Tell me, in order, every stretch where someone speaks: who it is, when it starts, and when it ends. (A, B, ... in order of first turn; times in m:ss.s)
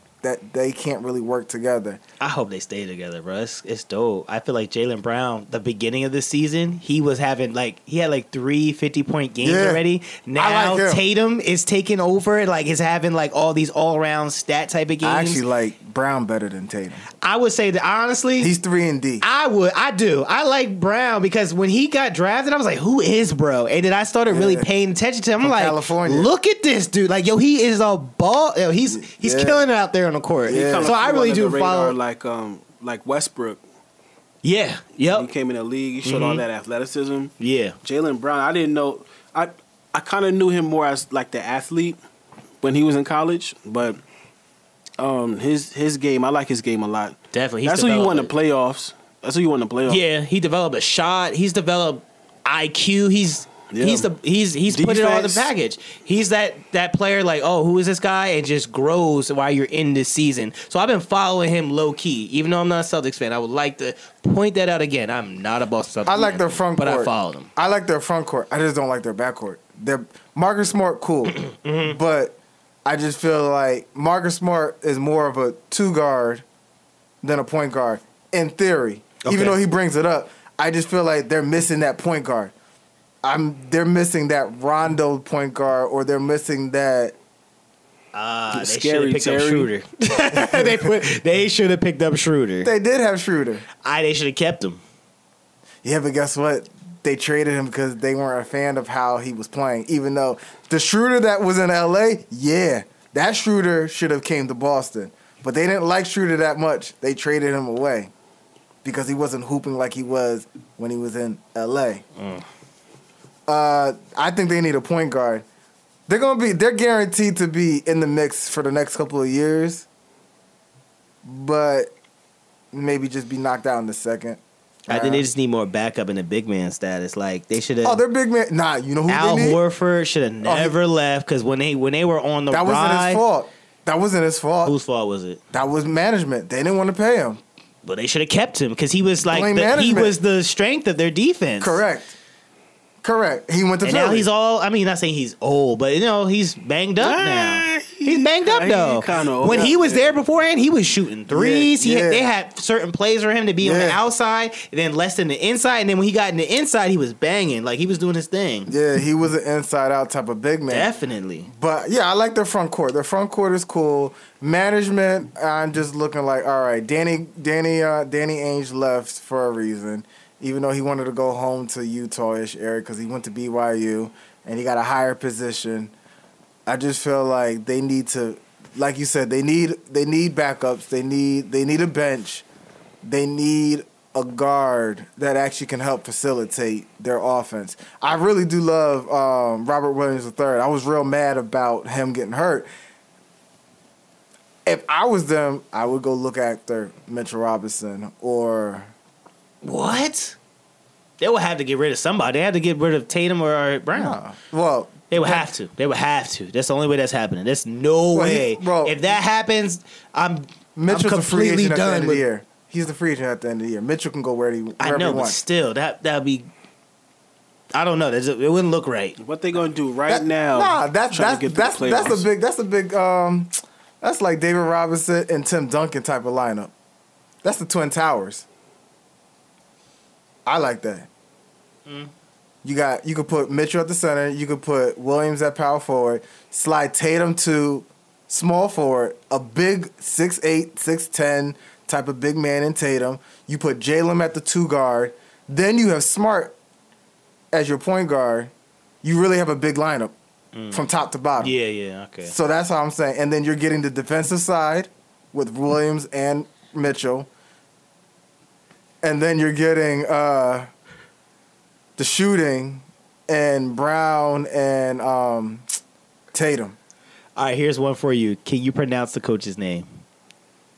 0:00.2-0:02.0 A
0:02.2-0:15.4 B
0:09.4-0:09.8 A
0:10.4-0:11.0 A
0:15.0-0:17.0 A
0:17.2-0:18.5 B
0:18.4-0:19.2 A
0:19.2-0:31.9 B
0:24.3-0:24.7 A
0:25.4-0:26.3 A
0:29.0-0:29.6 A
0:30.5-0:30.9 A
0:30.5-0:33.6 C
0:34.4-0:35.3 B
0:35.1-0:42.0 C
0:36.0-0:36.4 B
0:37.4-0:37.8 B
0:42.6-0:44.0 C
0:45.0-0:50.0 C
0:47.3-0:48.3 B
0:49.9-1:07.5 B
0:53.7-0:54.1 C
0:54.7-0:55.5 C
1:06.0-1:16.4 A
1:11.5-1:12.0 B
1:17.2-1:22.5 A
1:19.2-1:19.6 B
1:23.2-1:27.2 A
1:28.1-1:32.7 B
1:28.5-1:29.7 C
1:30.4-1:30.7 A
1:32.6-1:33.6 A
1:33.8-1:34.8 B
1:35.8-1:48.1 A
1:48.8-1:52.0 A
1:52.2-1:52.4 B
1:53.5-1:55.4 A
1:56.1-1:59.9 A
2:01.2-2:01.9 A
2:02.7-2:05.2 A
2:04.9-2:08.0 B
2:07.8-2:09.6 A
2:09.1-2:13.2 B
2:10.4-2:10.8 A
2:12.5-2:14.7 A
2:14.6-2:15.4 B
2:15.5-2:17.4 A
2:17.8-2:21.8 B
2:19.2-2:20.1 A
2:21.6-2:22.1 A
2:23.0-2:24.3 A
2:23.8-2:38.7 B
2:27.0-2:30.2 C
2:31.3-2:32.3 A
2:33.6-2:34.0 A
2:38.7-2:40.9 A
2:40.7-2:41.5 B
2:41.5-2:55.9 A
2:56.6-3:02.4 A
3:03.0-3:12.7 A
3:14.6-3:18.9 A
3:19.6-3:20.4 B
3:21.2-3:24.2 B
3:23.9-3:25.5 A
3:25.1-3:32.2 B
3:28.1-3:29.0 A
3:30.8-3:35.4 A
3:34.8-3:36.5 B
3:37.7-3:39.2 B
3:39.2-3:42.2 C
3:40.1-3:46.7 A
3:47.4-3:48.4 A
3:50.4-3:51.1 A
3:51.9-3:52.1 B
3:52.6-4:06.6 A
4:07.5-4:08.5 A
4:09.0-4:10.1 A
4:10.5-4:10.8 B
4:10.7-4:11.5 A
4:11.4-4:12.3 B
4:12.2-4:17.3 A
4:19.0-4:20.7 A
4:22.0-4:25.6 A
4:26.3-4:26.8 A
4:27.4-4:29.9 B